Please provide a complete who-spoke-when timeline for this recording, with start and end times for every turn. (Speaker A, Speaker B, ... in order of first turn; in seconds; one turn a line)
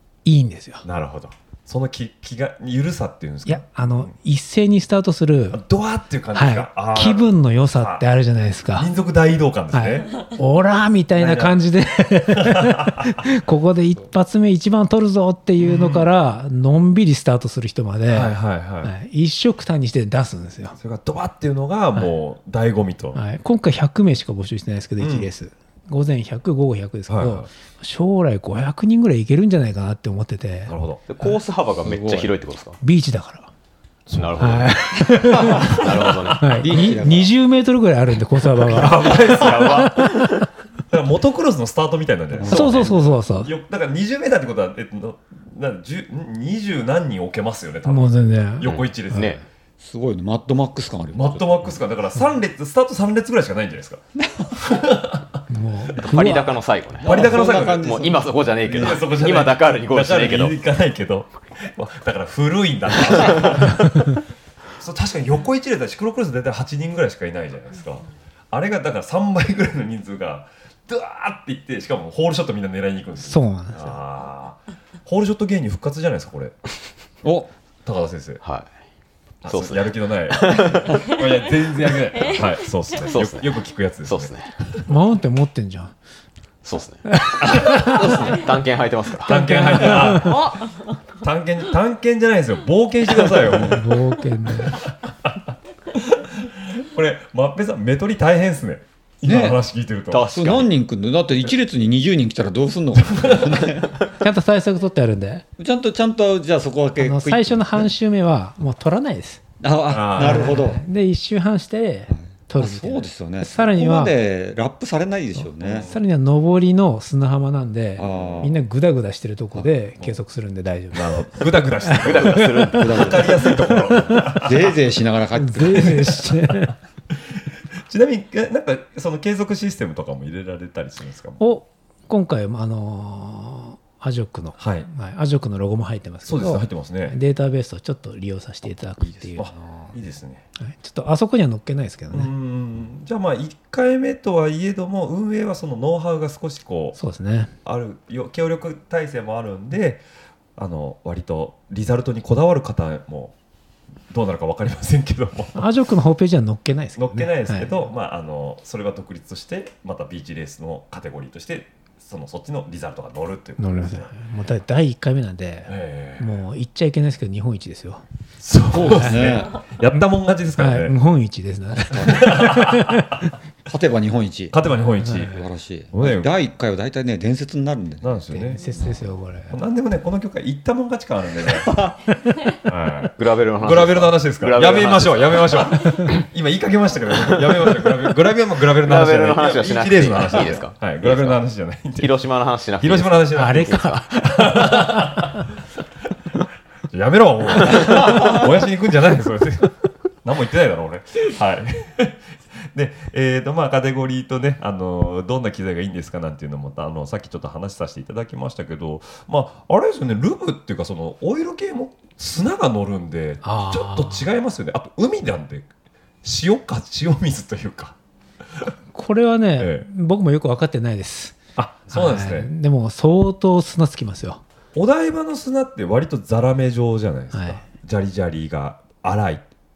Speaker A: 0.2-0.8
Speaker B: 0.8-4.1
Speaker A: 3.5-5.6
Speaker B: 5.5-8.1
Speaker A: 6.3-8.9
Speaker B: 8.7-10.1
Speaker A: 9.7-20.8
Speaker B: 11.2-11.6
Speaker B: 12.3-13.2
Speaker B: 15.6-16.1
Speaker B: 18.1-18.9
Speaker B: 20.8-23.2
Speaker A: 23.1-30.7
Speaker B: 25.0-25.3
Speaker B: 27.1-27.5
Speaker B: 30.7-31.0
Speaker C: 31.1-32.8
Speaker D: 31.8-32.3
Speaker A: 32.8-33.5
Speaker B: 34.1-36.1
Speaker C: 34.1-36.7
Speaker A: 34.4-39.2
Speaker D: 36.6-37.3
Speaker B: 38.6-40.1
Speaker C: 38.8-40.5
Speaker B: 40.9-49.4
Speaker D: 42.3-42.9
Speaker A: 42.5-43.5
Speaker A: 47.9-49.4
Speaker C: 48.7-49.4
Speaker D: 49.8-51.8
Speaker B: 51.1-55.4
Speaker A: 55.5-56.5
Speaker C: 56.1-60.6
Speaker D: 57.0-59.1
Speaker B: 57.0-58.0
Speaker B: 58.7-64.2
Speaker A: 63.7-64.2
Speaker B: 64.8-76.5
Speaker A: 73.2-73.8
Speaker D: 77.2-77.5
Speaker B: 77.8-78.4
Speaker C: 78.4-78.7
Speaker B: 79.4-84.8
Speaker C: 79.5-81.2
Speaker C: 82.9-84.5
Speaker A: 84.9-85.9
Speaker C: 86.6-87.0
Speaker A: 87.1-88.0
Speaker B: 87.6-87.9
Speaker D: 87.9-88.5
Speaker C: 88.3-89.3
Speaker B: 89.2-90.5
Speaker A: 89.3-90.4
Speaker B: 91.2-93.8
Speaker A: 93.5-94.8
Speaker B: 94.7-95.3
Speaker B: 95.9-100.4
Speaker D: 99.2-99.6
Speaker C: 100.1-100.7
Speaker D: 100.3-104.0
Speaker B: 103.0-103.7
Speaker A: 104.2-105.5
Speaker D: 105.6-107.9
Speaker A: 107.0-109.4
Speaker D: 109.6-110.8
Speaker B: 109.9-110.6
Speaker A: 110.2-114.2
Speaker D: 112.1-115.9
Speaker A: 115.4-121.3
Speaker B: 115.7-116.0
Speaker D: 118.0-118.6
Speaker B: 118.1-118.5
Speaker B: 120.9-124.8
Speaker A: 121.8-122.8
Speaker C: 122.0-123.2
Speaker D: 122.8-125.9
Speaker A: 125.4-126.7
Speaker B: 125.7-126.7
Speaker B: 127.8-131.4
Speaker A: 131.4-139.9
Speaker B: 134.6-134.9
Speaker B: 136.2-137.2
Speaker B: 139.3-140.4
Speaker A: 140.6-142.3
Speaker B: 142.1-147.0
Speaker A: 147.0-147.5
Speaker B: 147.6-150.0
Speaker B: 150.6-153.3
Speaker B: 154.1-155.7
Speaker A: 155.6-157.8
Speaker B: 157.0-164.1
Speaker A: 163.6-168.0
Speaker B: 165.7-166.3
Speaker B: 168.4-171.0
Speaker D: 168.7-169.6
Speaker A: 168.9-169.4
Speaker A: 170.6-173.3
Speaker B: 171.9-173.0
Speaker D: 171.9-172.2
Speaker D: 173.7-174.6
Speaker B: 174.5-175.4
Speaker A: 175.0-175.4
Speaker D: 175.3-178.2
Speaker B: 175.9-176.3
Speaker B: 178.0-178.6
Speaker A: 178.3-179.5
Speaker B: 179.5-181.7
Speaker D: 181.6-182.0
Speaker B: 182.7-192.2
Speaker C: 183.2-185.7
Speaker C: 188.7-191.4
Speaker C: 192.0-194.1
Speaker B: 192.8-195.4
Speaker A: 193.3-195.4
Speaker B: 196.9-199.7
Speaker B: 200.2-202.2
Speaker B: 202.7-215.7
Speaker A: 213.4-214.3
Speaker B: 216.2-217.9
Speaker A: 218.9-224.4
Speaker B: 219.6-219.8
Speaker B: 221.6-222.5
Speaker B: 224.8-229.4
Speaker A: 227.3-227.6